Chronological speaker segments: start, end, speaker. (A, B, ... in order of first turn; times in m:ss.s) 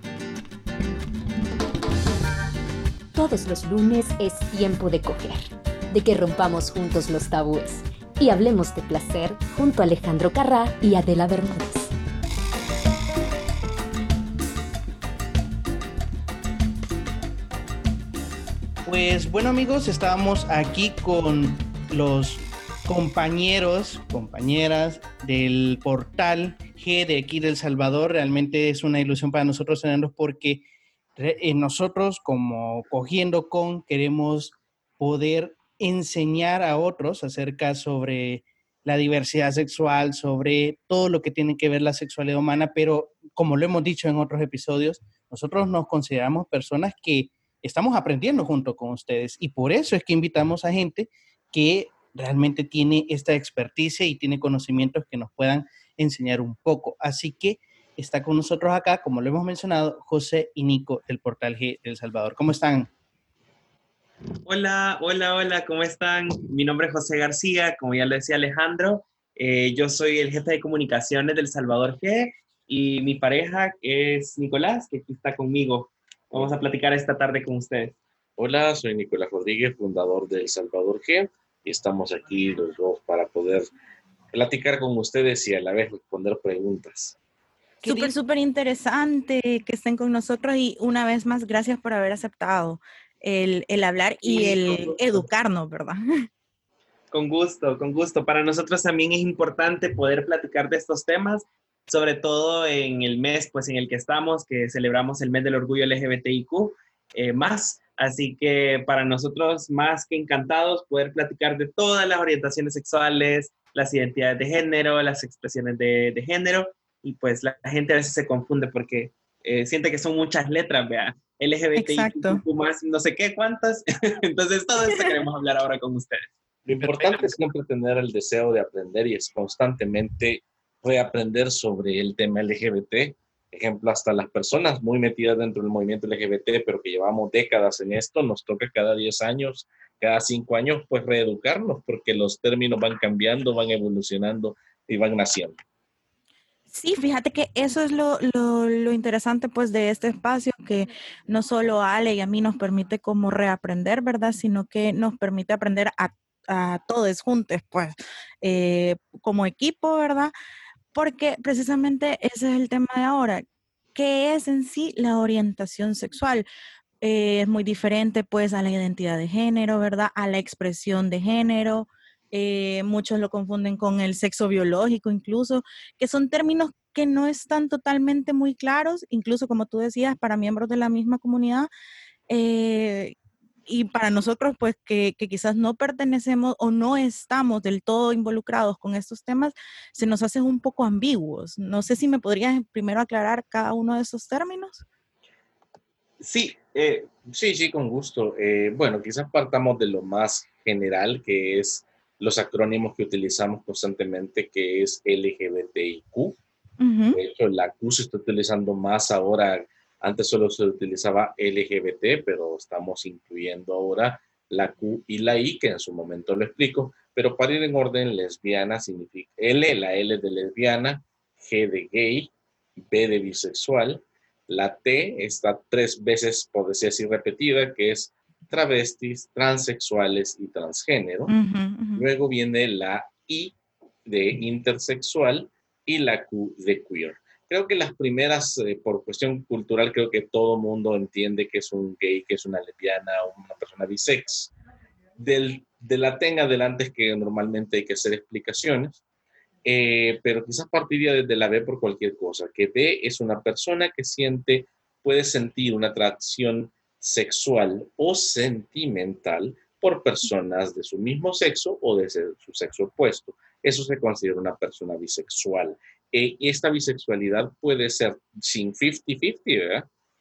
0:03.1-0:11.9 A
0:18.8-0:30.6 B
0:31.2-1:02.9 B
1:04.4-1:18.0 C
1:18.4-1:23.7 D
1:24.3-1:27.2 D
1:27.8-1:36.2 E
1:27.8-1:28.1 B
1:34.2-1:35.2 C
1:37.1-2:06.3 C
2:01.8-2:02.4 E
2:06.6-2:25.6 D
2:06.8-2:07.3 B
2:26.7-2:40.3 E
2:40.9-2:43.4 E
2:43.9-2:46.4 E
2:47.0-3:01.7 E
3:02.3-3:03.2 E
3:03.7-3:14.8 E
3:16.2-3:17.1 C
3:17.3-3:26.4 D
3:26.8-3:27.2 E
3:27.1-3:42.3 D
3:42.9-3:51.3 D
3:51.3-3:52.0 E
3:52.0-4:04.5 D
4:05.2-4:09.0 D
4:09.6-4:29.9 D